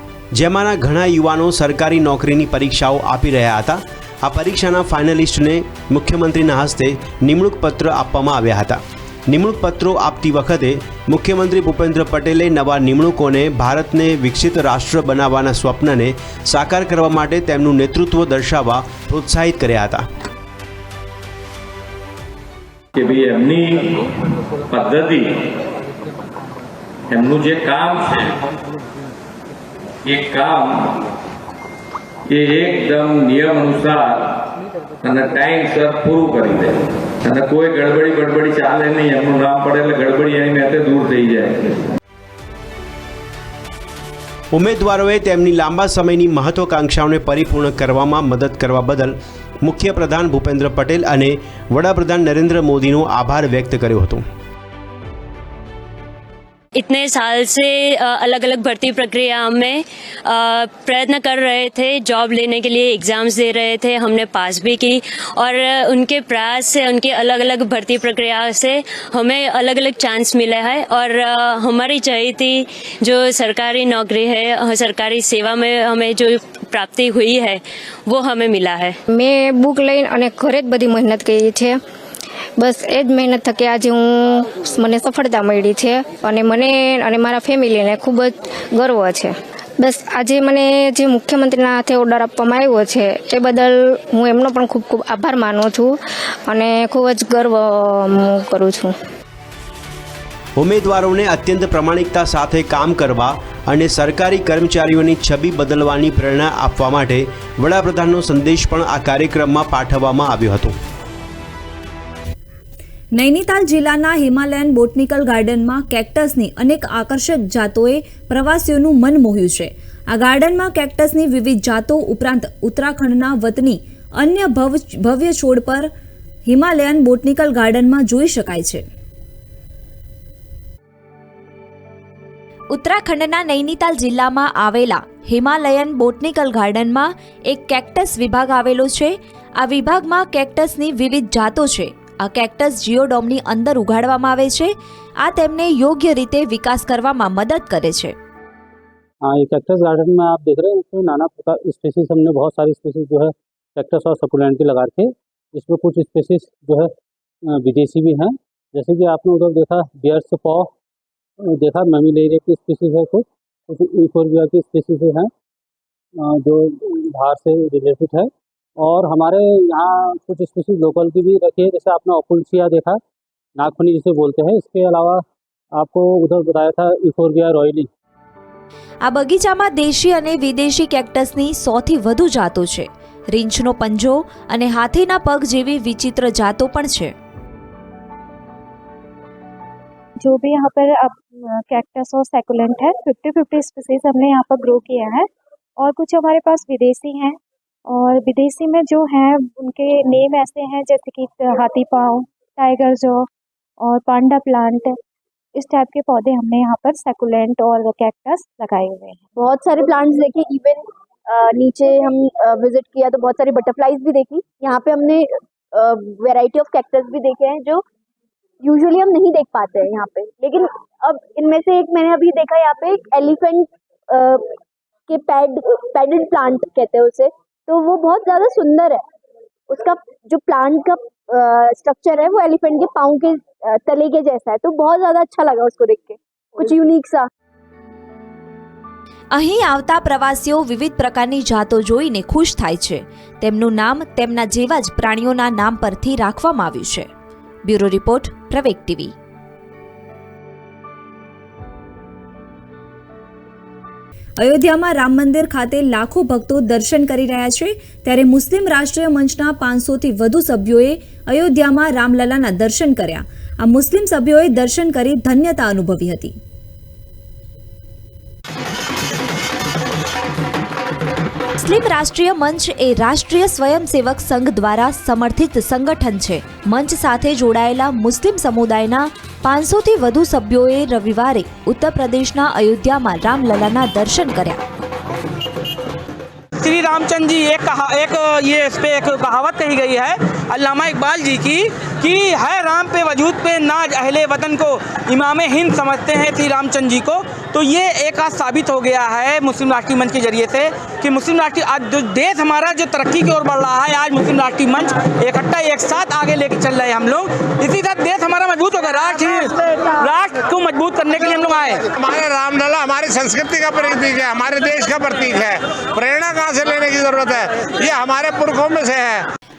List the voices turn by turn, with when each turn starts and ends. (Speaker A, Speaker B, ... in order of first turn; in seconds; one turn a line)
Speaker A: 0.3-20.1
Speaker B: 23.0-23.9
Speaker B: 24.7-25.3
Speaker B: 27.1-28.3
Speaker B: 30.1-30.8
Speaker B: 32.3-34.2
Speaker B: 35.0-41.7
Speaker A: 44.5-54.2
Speaker C: 56.8-78.9
Speaker D: 79.6-81.6
Speaker D: 83.1-83.8
Speaker D: 84.8-85.8
Speaker D: 87.1-88.2
Speaker D: 88.8-89.2
Speaker D: 91.0-91.7
Speaker D: 94.3-94.8
Speaker A: 100.6-110.8
Speaker E: 113.2-125.9
Speaker E: 126.5-128.8
Speaker F: 132.8-148.1
Speaker G: 149.3-155.0
Speaker G: 155.6-156.8
Speaker H: 155.7-156.6
Speaker G: 157.7-158.2
Speaker G: 158.8-160.5
Speaker H: 158.9-159.2
Speaker H: 159.8-160.6
Speaker H: 161.7-162.7
Speaker G: 161.8-163.2
Speaker G: 163.7-165.2
Speaker H: 164.0-164.8
Speaker H: 167.3-168.1
Speaker G: 167.3-168.2
Speaker G: 168.9-172.9
Speaker H: 171.7-172.8
Speaker G: 173.8-175.2
Speaker G: 175.8-177.8
Speaker F: 179.1-187.1
Speaker H: 190.2-203.3
Speaker H: 203.8-205.0
Speaker H: 205.6-209.2
Speaker I: 209.4-217.8
Speaker I: 218.6-224.5
Speaker I: 225.1-229.0
Speaker I: 229.7-237.2
Speaker F: 239.3-247.1
Speaker F: 247.7-249.1
Speaker E: 254.4-266.3
Speaker F: 271.7-284.6
Speaker J: 286.6-311.8
Speaker K: 311.9-319.2